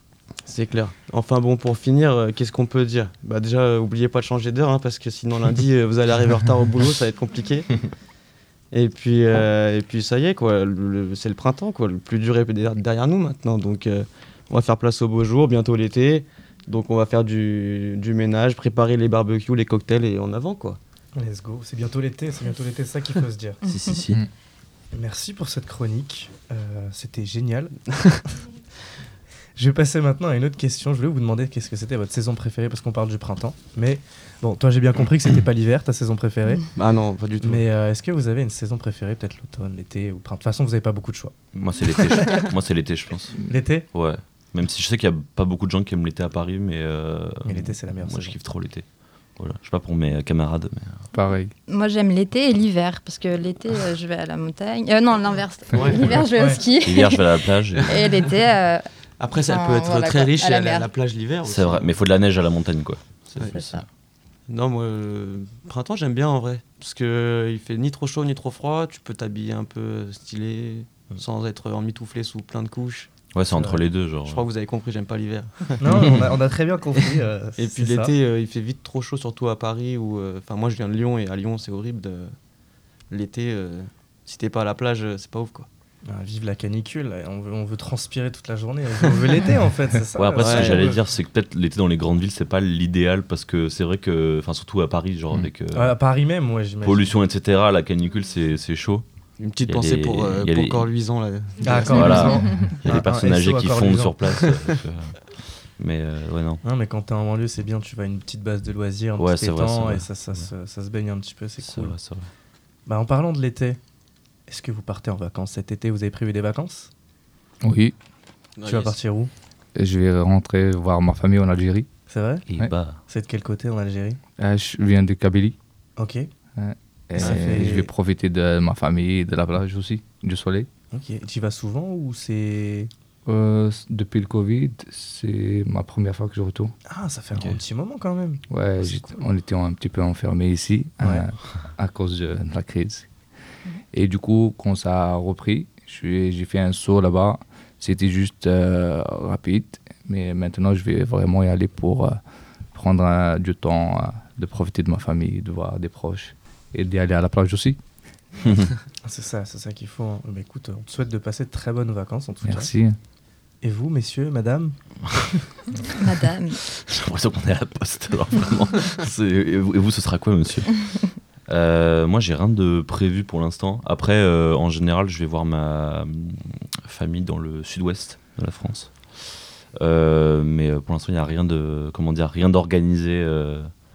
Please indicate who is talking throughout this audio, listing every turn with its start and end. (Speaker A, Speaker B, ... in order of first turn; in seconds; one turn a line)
Speaker A: 0.5-7.9
Speaker A: 8.7-20.8
Speaker B: 21.1-23.6
Speaker C: 23.6-24.2
Speaker B: 24.9-27.8
Speaker B: 29.6-36.7
Speaker A: 36.8-37.7
Speaker B: 37.4-41.3
Speaker C: 41.5-51.0
Speaker B: 43.5-43.9
Speaker B: 47.5-48.4
Speaker D: 51.1-51.5
Speaker E: 51.7-60.9
Speaker A: 55.8-56.3
Speaker B: 56.4-56.6
Speaker C: 56.8-58.0
Speaker A: 59.2-61.9
Speaker C: 61.5-63.8
Speaker E: 63.5-63.9
Speaker A: 64.5-73.1
Speaker C: 73.3-74.5
Speaker B: 73.5-73.8
Speaker A: 74.3-76.3
Speaker B: 75.8-78.1
Speaker A: 77.0-82.3
Speaker A: 83.1-85.7
Speaker B: 86.1-91.0
Speaker C: 90.2-96.0
Speaker A: 90.4-90.9
Speaker B: 95.7-97.1
Speaker C: 96.8-99.0
Speaker A: 99.4-102.6
Speaker C: 99.6-100.9
Speaker B: 101.6-104.2
Speaker C: 101.9-106.6
Speaker B: 106.6-112.0
Speaker C: 109.2-110.5
Speaker C: 111.6-112.3
Speaker B: 112.9-113.8
Speaker B: 114.5-116.9
Speaker D: 117.6-118.0
Speaker A: 118.6-119.0
Speaker B: 118.7-119.3
Speaker D: 119.8-121.9
Speaker B: 122.1-122.4
Speaker C: 122.5-123.0
Speaker B: 123.1-124.2
Speaker D: 124.4-125.6
Speaker B: 126.0-126.3
Speaker D: 126.6-130.7
Speaker B: 127.2-127.9
Speaker A: 127.2-127.7
Speaker B: 130.9-132.9
Speaker D: 133.3-136.7
Speaker B: 136.9-139.2
Speaker D: 138.5-143.1
Speaker D: 143.9-152.2
Speaker D: 152.7-157.8
Speaker C: 158.4-158.7
Speaker B: 159.0-162.7
Speaker D: 162.5-163.0
Speaker B: 163.6-164.8
Speaker E: 166.0-166.6
Speaker C: 166.8-183.7